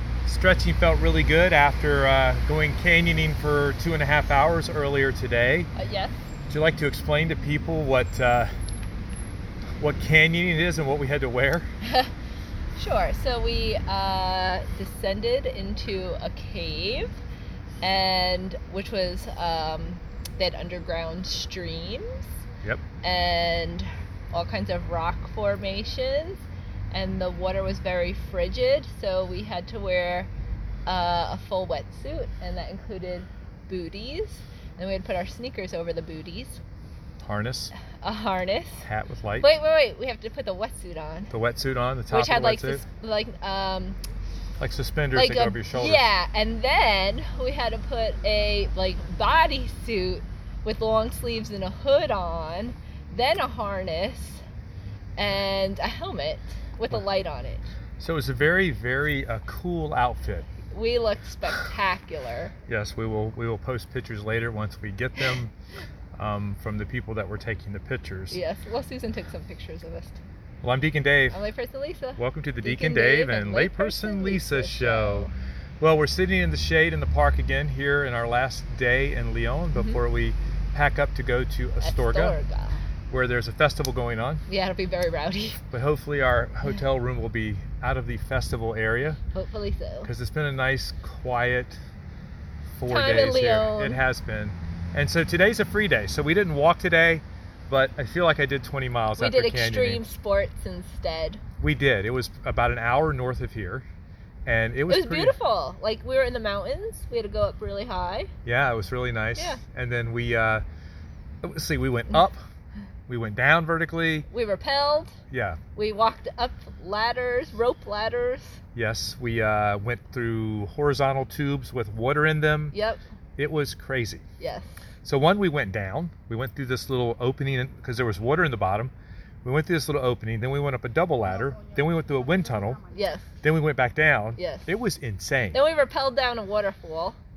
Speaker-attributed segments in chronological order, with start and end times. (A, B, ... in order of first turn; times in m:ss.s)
0:00.3-0:05.7 A
0:05.8-0:06.2 B
0:06.5-0:08.5 A
0:09.8-0:11.7 A
0:11.8-0:12.1 B
0:12.8-0:17.2 B
0:17.8-0:22.3 B
0:23.0-0:30.3 B
0:30.9-0:36.6 B
0:37.2-0:37.8 A
0:38.0-0:38.8 B
0:38.8-0:39.5 A
0:39.4-0:41.3 B
0:41.3-0:42.8 A
0:42.1-0:44.0 B
0:44.6-0:46.1 A
0:45.1-0:54.4 B
0:55.2-0:57.7 B
0:58.0-1:00.5 A
1:00.7-1:02.5 B
1:02.7-1:05.5 A
1:06.2-1:08.4 A
1:08.3-1:10.2 B
1:10.6-1:11.4 A
1:11.3-1:15.3 B
1:12.2-1:15.3 A
1:15.8-1:22.4 A
1:19.7-1:20.0 B
1:21.8-1:22.8 B
1:23.1-1:24.4 A
1:24.5-1:25.6 B
1:25.7-1:29.2 A
1:29.3-1:30.1 B
1:30.0-1:31.8 A
1:32.7-1:40.1 A
1:32.9-1:34.0 B
1:39.2-1:41.4 B
1:41.6-1:43.9 A
1:44.5-1:45.4 A
1:44.9-1:48.3 B
1:48.4-1:50.6 A
1:49.4-1:49.6 B
1:51.4-1:52.4 A
1:53.1-1:54.3 A
1:54.3-1:55.2 B
1:55.3-1:55.6 A
1:55.8-1:58.6 B
1:58.8-2:02.8 A
2:02.7-2:03.0 B
2:03.4-2:04.2 A
2:04.4-2:04.8 B
2:05.0-2:08.9 A
2:09.4-2:12.8 A
2:12.9-2:13.3 B
2:13.4-2:15.6 A
2:14.4-2:14.7 B
2:15.5-2:17.2 B